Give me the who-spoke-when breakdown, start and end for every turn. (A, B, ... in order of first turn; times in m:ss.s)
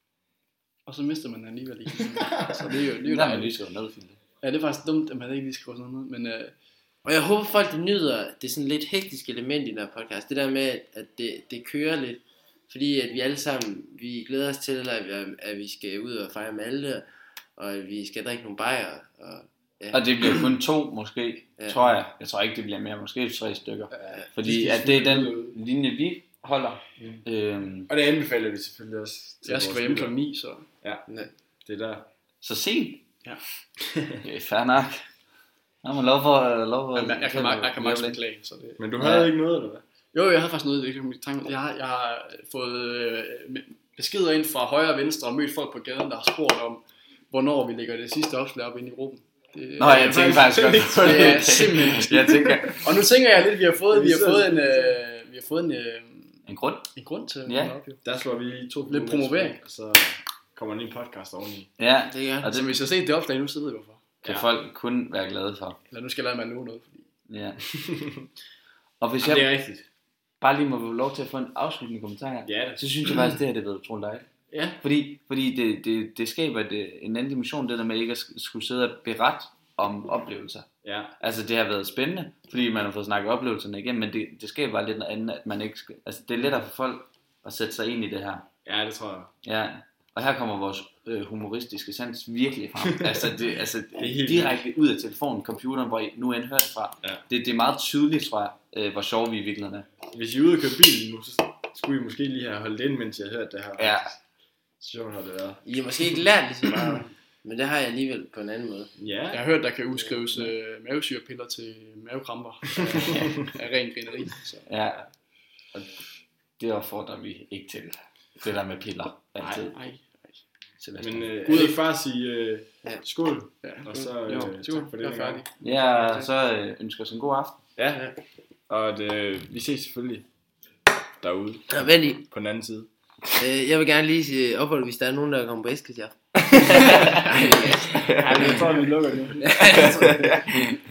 0:00.8-0:03.5 A
0:02.2-0:02.6 B
0:03.0-0:04.2 C
0:04.4-0:06.5 A
0:07.0-0:17.0 D
0:17.6-0:20.0 D
0:19.9-0:27.9 C
0:24.2-0:25.5 B
0:27.9-0:30.1 B
0:29.4-0:30.6 A
0:31.6-0:32.1 B
0:32.4-0:33.0 C
0:33.9-0:34.2 B
0:34.2-0:35.0 C
0:35.8-0:38.2 C
0:36.9-0:39.2 A
0:38.8-0:39.8 B
0:39.0-0:39.2 C
0:40.1-0:56.4 A
0:49.8-0:53.0 C
0:50.0-0:51.7 B
0:53.9-0:55.0 B
0:56.5-0:56.9 C
0:56.9-0:58.0 A
0:57.4-0:57.8 C
0:58.0-1:01.7 B
0:58.9-0:59.6 A
1:01.8-1:02.7 C
1:02.0-1:02.6 D
1:02.5-1:04.0 A
1:04.2-1:05.8 C
1:05.9-1:07.0 A
1:07.3-1:07.6 C
1:07.8-1:08.2 B
1:09.0-1:09.4 C
1:09.2-1:09.9 B
1:10.4-1:14.3 C
1:12.4-1:12.8 B
1:14.5-1:14.8 B
1:14.8-1:20.7 C
1:20.8-1:21.1 B
1:21.2-1:28.5 C
1:28.6-1:29.3 B
1:29.4-1:39.9 C
1:34.0-1:34.6 B
1:40.1-1:44.2 B
1:43.8-1:44.1 C
1:44.8-1:45.6 B
1:45.6-1:48.9 D
1:49.0-1:49.4 B
1:49.3-1:54.7 A
1:52.8-1:53.3 B
1:54.7-1:55.0 C
1:56.6-1:59.7 C
1:59.4-1:59.7 B
1:59.7-2:00.4 A
2:00.8-2:01.3 C
2:01.0-2:05.4 B
2:01.5-2:01.8 A
2:03.6-2:05.5 A
2:05.6-2:07.6 C
2:08.7-2:10.2 B
2:11.2-2:11.7 B
2:11.7-2:12.2 D
2:12.3-2:12.9 B
2:13.3-2:18.6 D
2:18.0-2:18.2 C
2:18.1-2:20.4 B
2:19.4-2:20.4 D
2:20.0-2:20.6 C